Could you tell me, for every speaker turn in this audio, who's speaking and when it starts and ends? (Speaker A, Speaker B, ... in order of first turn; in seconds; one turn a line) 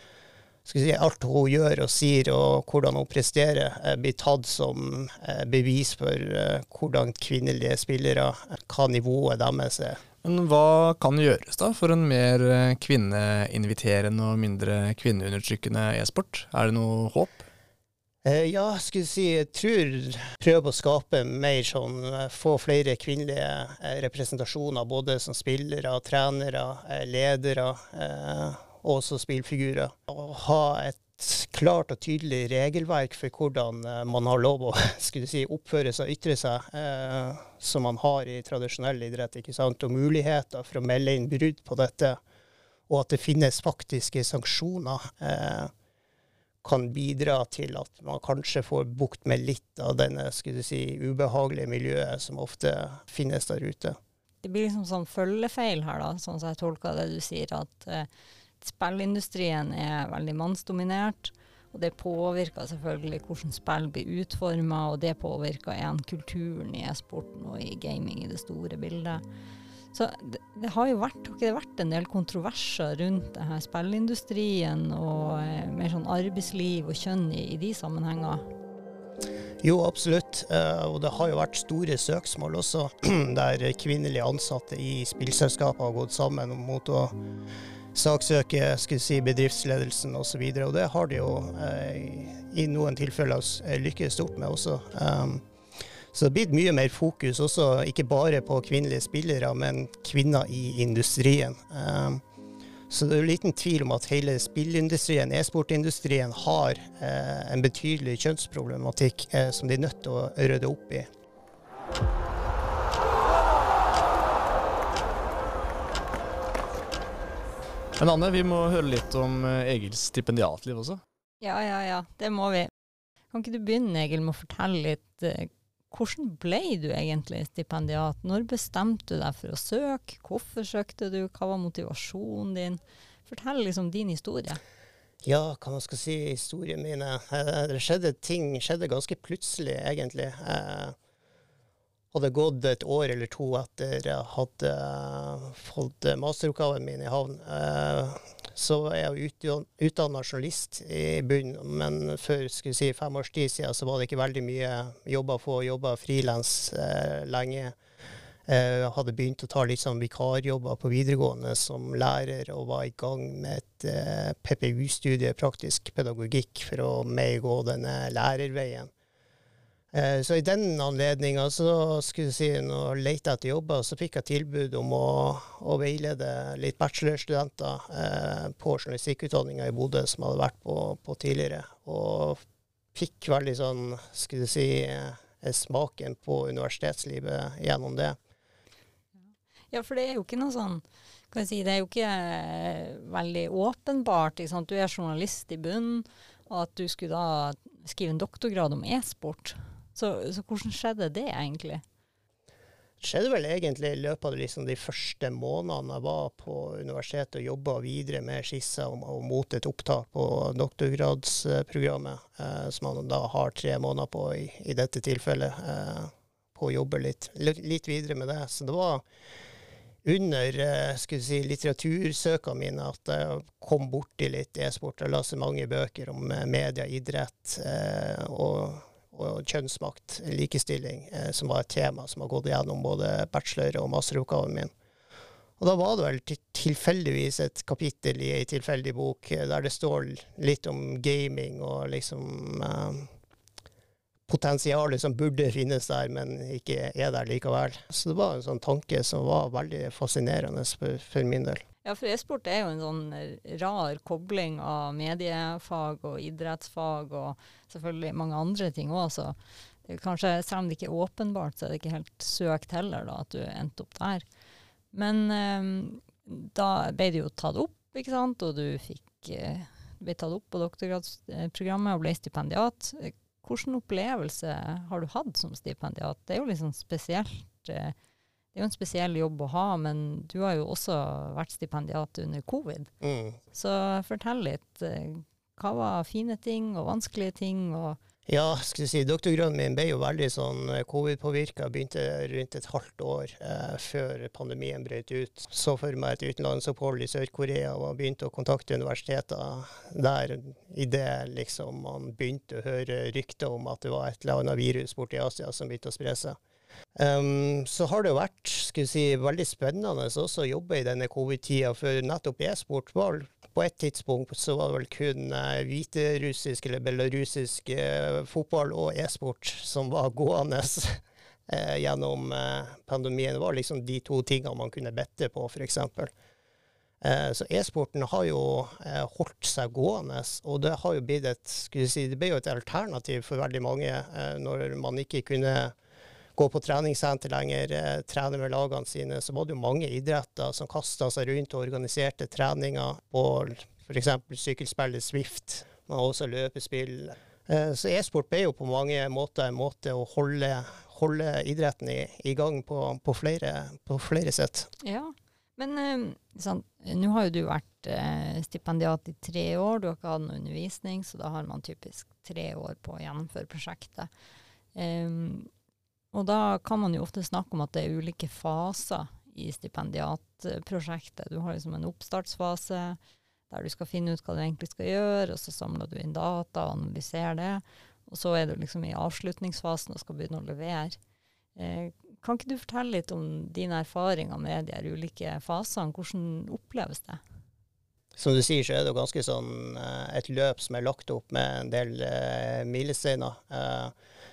Speaker A: 0.6-10.0
Speaker B: 10.2-17.4
Speaker A: 18.2-42.2
Speaker A: 42.9-45.7
Speaker A: 46.6-54.0
Speaker C: 54.4-58.1
Speaker C: 58.6-69.2
Speaker C: 69.9-78.5
Speaker A: 79.6-87.1
Speaker A: 87.9-95.4
Speaker A: 96.1-102.2
Speaker A: 102.9-111.1
Speaker B: 118.0-121.0
Speaker C: 121.4-122.7
Speaker C: 123.3-134.6
Speaker A: 135.2-141.0
Speaker A: 142.1-157.8
Speaker A: 158.5-168.9
Speaker A: 169.9-182.4
Speaker A: 182.9-188.2
Speaker C: 189.7-201.8
Speaker A: 203.0-219.0
Speaker A: 220.0-234.7
Speaker A: 235.6-243.1
Speaker A: 244.3-251.6
Speaker C: 251.8-264.3
Speaker C: 264.9-277.9
Speaker C: 278.5-282.9
Speaker A: 283.0-283.4
Speaker C: 283.5-288.0
Speaker A: 288.3-306.4
Speaker A: 306.9-326.1
Speaker A: 327.0-335.7
Speaker A: 336.4-354.7
Speaker C: 354.8-364.1
Speaker C: 364.7-365.5
Speaker C: 366.1-373.0
Speaker C: 373.5-381.0
Speaker C: 381.6-387.2
Speaker A: 388.2-393.9